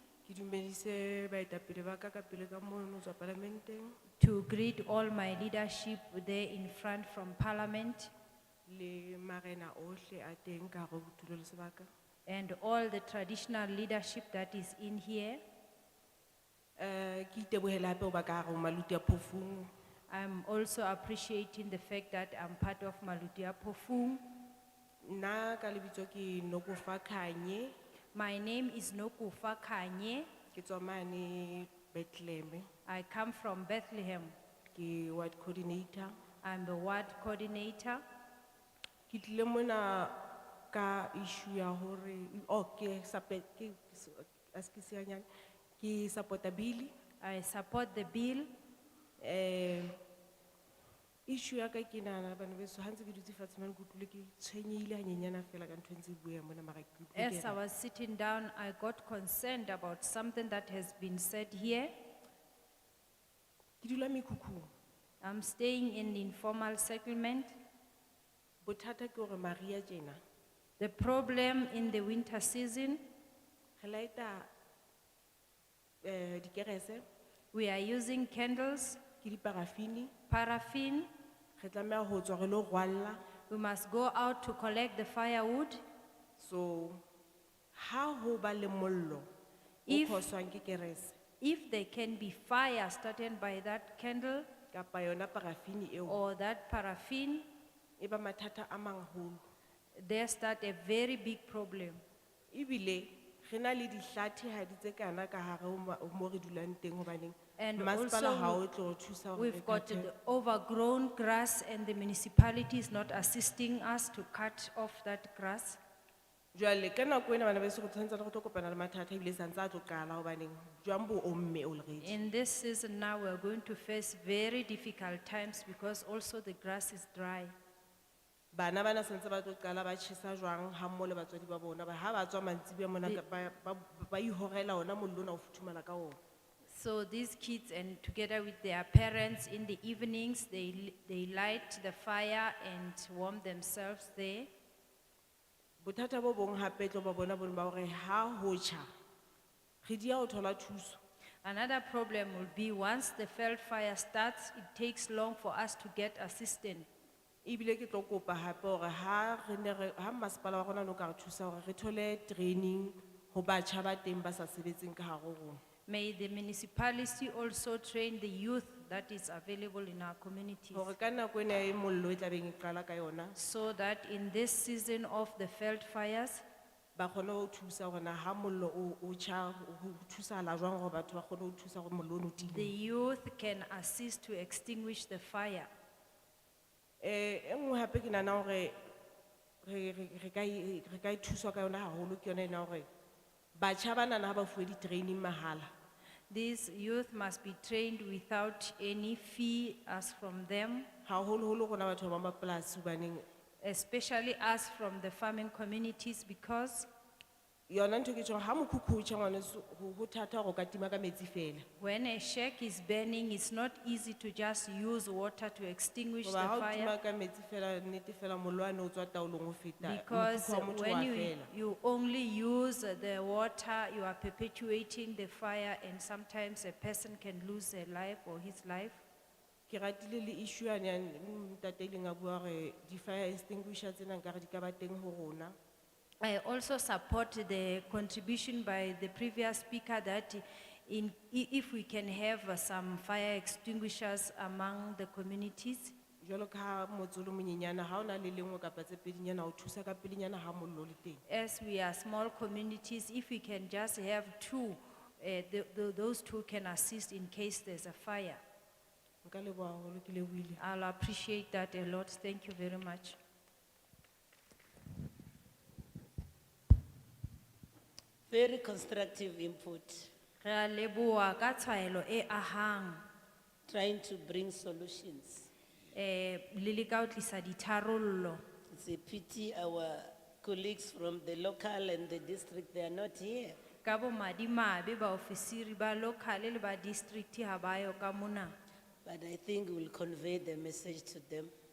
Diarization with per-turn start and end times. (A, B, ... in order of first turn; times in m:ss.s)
0:00.2-0:04.0 A
0:04.2-0:08.1 B
0:08.7-0:11.9 A
0:12.3-0:15.4 B
0:16.8-0:19.7 A
0:20.1-0:24.2 B
0:25.0-0:27.7 A
0:28.1-0:30.3 B
0:30.5-0:32.7 A
0:32.9-0:34.3 B
0:34.8-0:36.1 A
0:36.4-0:38.0 B
0:39.1-0:40.2 A
0:40.7-0:45.3 A
0:45.8-0:46.9 A
0:47.2-0:48.5 B
0:49.2-0:50.0 A
0:51.3-0:57.6 A
0:57.2-1:01.9 B
1:03.8-1:04.7 A
1:05.2-1:07.5 B
1:08.6-1:10.2 A
1:10.8-1:13.0 B
1:13.8-1:14.5 A
1:16.0-1:17.0 A
1:17.5-1:19.0 B
1:19.2-1:20.1 A
1:20.3-1:21.1 B
1:21.6-1:23.2 A
1:23.5-1:25.8 B
1:26.4-1:27.0 A
1:27.7-1:29.3 A
1:29.9-1:30.3 B
1:29.9-1:31.2 A
1:31.4-1:34.5 B
1:34.7-1:36.2 A
1:36.1-1:37.5 B
1:38.0-1:39.4 A
1:40.0-1:42.0 B
1:42.5-1:50.1 A
1:47.6-1:48.6 B
1:49.4-1:55.8 B
1:56.6-2:02.2 A
2:02.0-2:07.5 B
2:08.5-2:16.2 A
2:16.7-2:24.5 B
2:25.8-2:28.9 A
2:29.8-2:31.0 A
2:31.4-2:36.9 B
2:37.4-2:45.6 A
2:45.9-2:50.9 B
2:50.7-2:53.4 A
2:53.4-2:56.4 B
2:57.0-3:02.7 A
3:02.5-3:05.7 B
3:07.0-3:08.8 A
3:09.6-3:12.9 A
3:13.6-3:15.7 A
3:16.3-3:20.9 B
3:21.1-3:23.2 A
3:23.6-3:26.9 B
3:27.7-3:31.6 A
3:31.8-3:36.9 B
3:36.2-3:41.5 A
3:39.8-3:49.0 B
3:49.7-3:55.6 A
3:56.2-4:05.9 B
4:06.2-4:11.2 A
4:11.3-4:18.4 B
4:19.2-4:20.6 A
4:20.6-4:23.2 B
4:28.3-4:30.1 C
4:30.4-4:33.0 B
4:33.7-4:35.5 C
4:35.9-4:38.4 B
4:38.7-4:43.6 C
4:43.8-4:48.5 B
4:49.0-4:51.5 C